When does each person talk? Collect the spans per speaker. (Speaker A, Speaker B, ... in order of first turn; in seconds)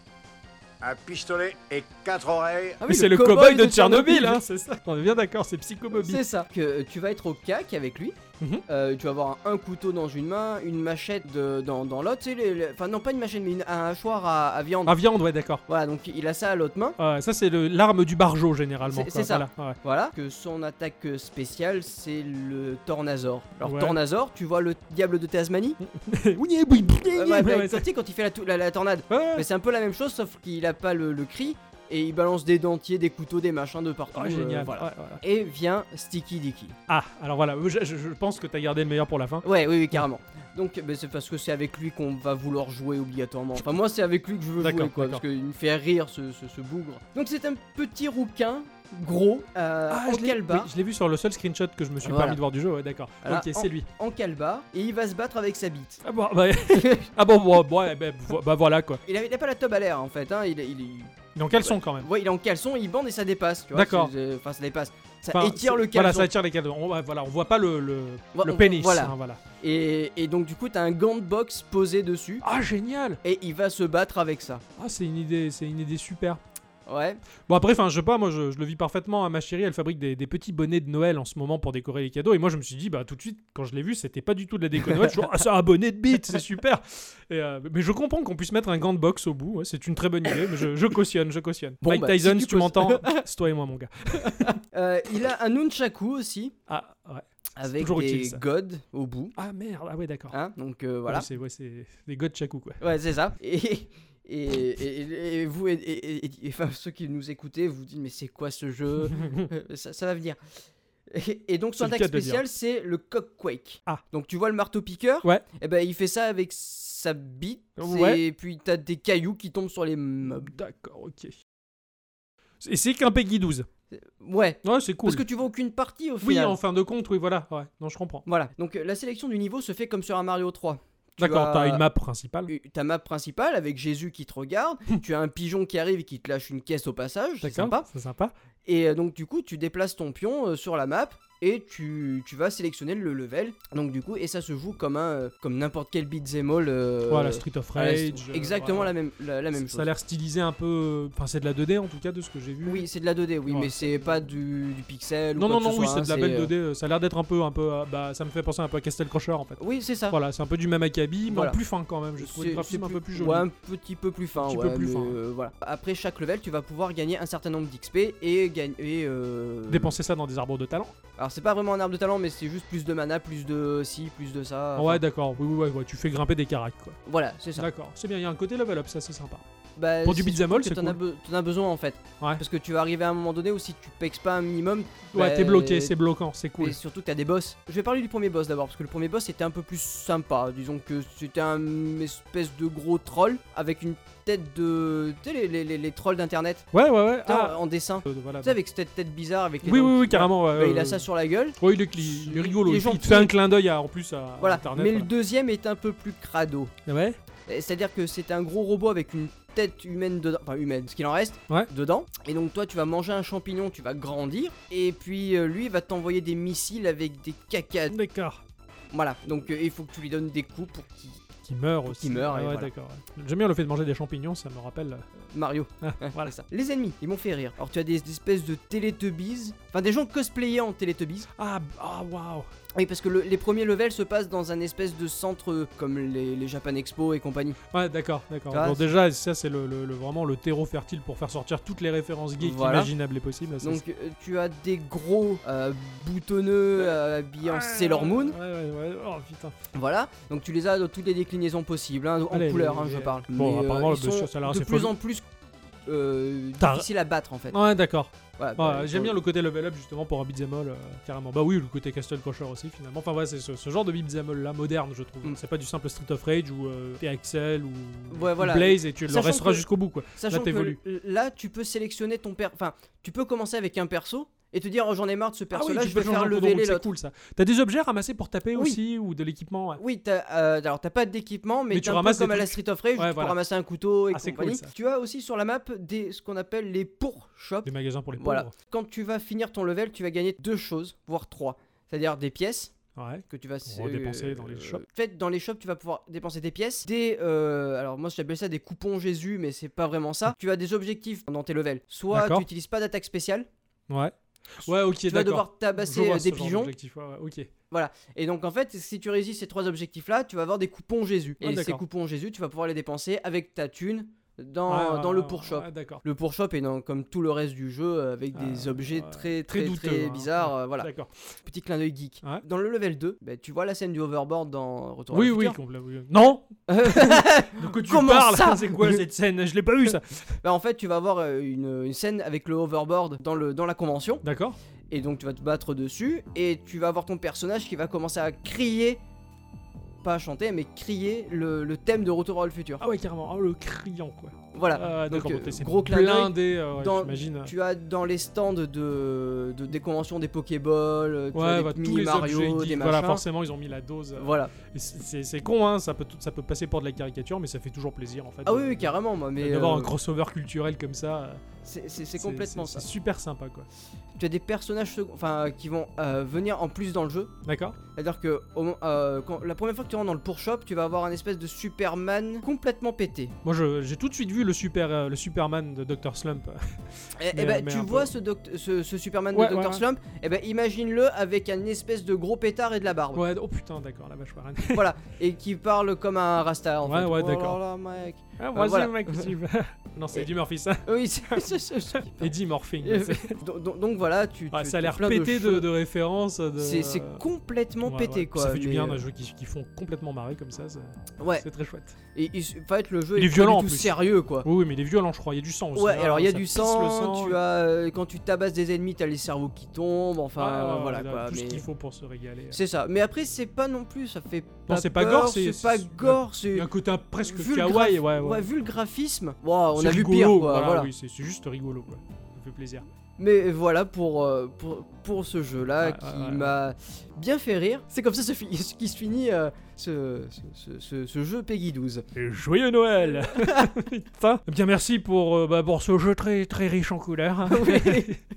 Speaker A: 0.8-2.8
Speaker B: 2.8-4.4, 5.9-8.2, 8.7-15.0, 15.7-16.9, 18.8-25.8, 27.1-36.8, 39.4-50.7, 52.0-52.4, 53.2-56.0, 56.7-57.1, 59.0-66.3, 68.3-72.4, 73.2-74.6, 76.9-77.2, 91.8-93.2, 94.2-96.5, 97.6-99.3, 100.3-101.2, 102.8-110.4, 111.1-120.5, 123.9-126.6, 128.2-131.8, 132.5-137.8, 138.6-149.9, 152.6-156.5, 159.6-160.2, 161.3-161.6, 162.2-169.9, 171.2-175.0, 177.1-177.7, 179.8-185.9, 186.6-196.7, 197.2-203.3, 204.4-206.7, 207.5-218.0, 218.9-221.2, 221.8-222.7, 225.3-231.3, 232.7-237.6, 238.5-238.9, 242.4-242.9, 243.6-248.3, 249.7-255.2, 255.8-257.6, 258.4-259.2, 268.1-276.9, 279.8-292.7, 293.3-303.5, 305.0-306.7, 307.7-320.9, 321.4-325.6, 326.7-329.0, 330.4-334.2, 334.9-339.0, 340.0-342.8, 344.5-353.2, 354.1-354.5, 358.4-359.9, 361.6-362.9, 364.1-367.3, 367.9-373.3, 377.2-383.2, 384.7-389.3, 390.8-395.7, 396.6-399.0, 401.2-401.4, 402.1-404.5, 405.7-411.6, 412.5-416.7, 417.2-420.9, 423.2-432.0, 433.4-433.7, 437.5-438.1
Speaker C: 2.8-6.2, 14.8-15.6, 17.0-19.8, 23.6-24.0, 25.8-27.9, 29.1-29.5, 34.1-35.2, 36.9-40.0, 44.6-45.2, 49.9-53.9, 56.0-59.0, 61.3-62.1, 63.7-64.1, 65.3-69.4, 72.4-73.2, 74.8-76.4, 77.5-94.5, 96.7-98.4, 99.3-100.4, 101.0-102.8, 109.1-109.5, 111.8-112.4, 117.8-118.2, 120.4-121.3, 122.6-123.7, 124.6-125.2, 126.2-128.2, 131.2-132.5, 137.4-138.3, 147.1-148.9, 149.5-152.8, 153.5-154.1, 155.3-163.5, 164.3-165.2, 169.7-170.9, 174.8-177.0, 177.6-179.4, 180.0-181.0, 185.1-186.8, 196.7-198.6, 199.6-201.1, 201.6-205.1, 206.8-207.2, 217.9-218.4, 221.4-225.1, 225.8-226.3, 231.4-232.5, 237.7-243.8, 246.8-249.6, 252.3-254.9, 256.6-256.9, 257.5-270.8, 275.5-279.8, 281.7-283.4, 284.1-284.7, 287.6-288.5, 292.9-294.8, 302.1-302.4, 303.9-307.5, 311.4-311.8, 314.7-316.0, 318.3-321.1, 325.1-330.4, 334.2-334.6, 342.8-347.5, 351.3-361.4, 362.1-363.7, 367.4-367.8, 373.4-378.1, 379.3-379.8, 383.1-384.9, 386.8-387.6, 388.4-391.4, 392.1-393.4, 394.5-397.2, 397.8-402.0, 403.1-407.4, 410.4-412.6, 414.7-418.5, 419.7-422.9, 425.8-426.5, 432.1-438.2